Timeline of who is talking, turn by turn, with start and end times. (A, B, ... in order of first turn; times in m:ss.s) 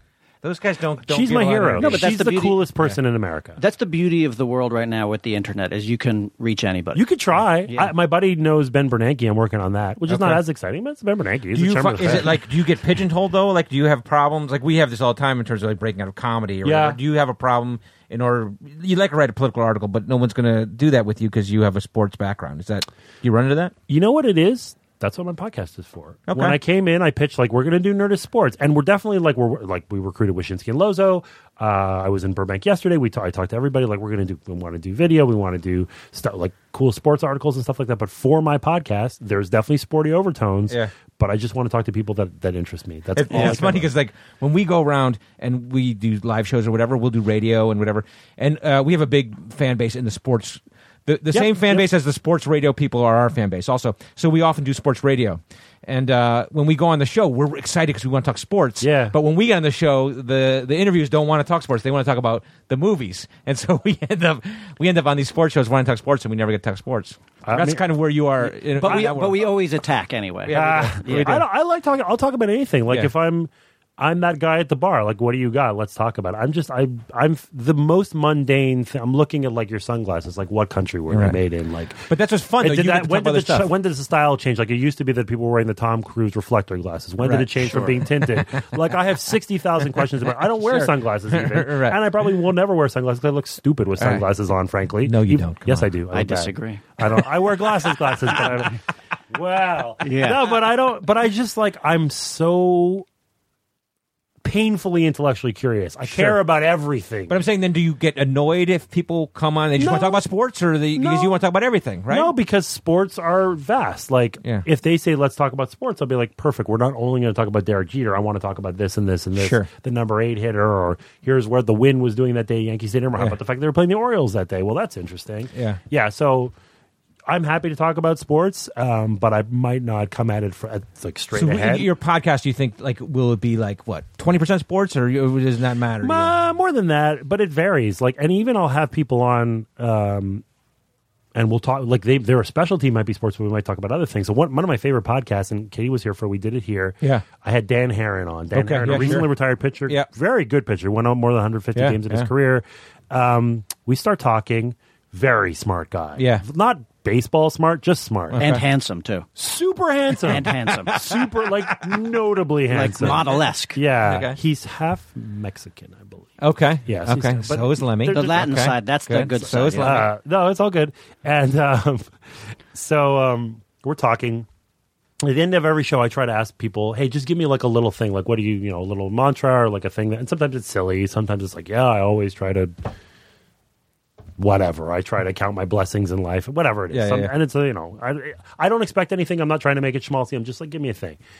0:00.4-0:02.1 A
0:01.1-0:03.6 B
0:01.8-0:02.6 C
0:03.6-0:07.0 C
0:06.9-0:12.4 B
0:10.1-0:10.4 A
0:11.5-0:23.7 A
0:16.6-0:17.0 B
0:23.9-0:43.9 B
0:26.3-0:26.6 A
0:43.1-1:09.5 A
0:51.3-0:51.8 B
0:58.8-0:59.2 B
1:07.4-1:07.8 B
1:08.4-1:11.4 C
1:08.8-1:09.1 B
1:10.4-1:11.4 A
1:10.5-1:43.0 B
1:21.1-1:21.4 A
1:22.1-1:23.7 A
1:27.2-1:28.9 A
1:29.9-1:32.1 A
1:34.0-1:34.2 A
1:35.0-1:35.9 A
1:36.1-1:36.8 C
1:40.0-1:40.5 C
1:44.4-1:47.4 B
1:46.0-1:46.4 A
1:47.3-1:52.3 A
1:49.8-1:50.2 B
1:50.9-1:51.4 B
1:52.1-2:06.5 B
1:59.4-1:59.7 A
2:05.5-2:05.8 A
2:07.3-2:11.9 B
2:11.3-2:16.3 A
2:16.0-2:20.4 B
2:21.3-2:38.4 B
2:28.5-2:29.3 A
2:31.7-2:32.3 A
2:36.2-2:36.4 A
2:38.3-2:38.6 A
2:38.4-2:39.3 C
2:39.4-2:46.3 B
2:40.3-2:41.1 C
2:40.3-2:41.7 A
2:42.7-2:43.8 C
2:43.0-2:43.4 A
2:44.0-2:44.4 A
2:46.4-2:50.1 A
2:46.8-2:48.6 B
2:48.1-2:50.1 C
2:49.7-2:52.1 B
2:52.7-2:54.5 B
2:55.2-3:02.7 B
3:04.4-3:11.2 B
3:06.9-3:07.3 A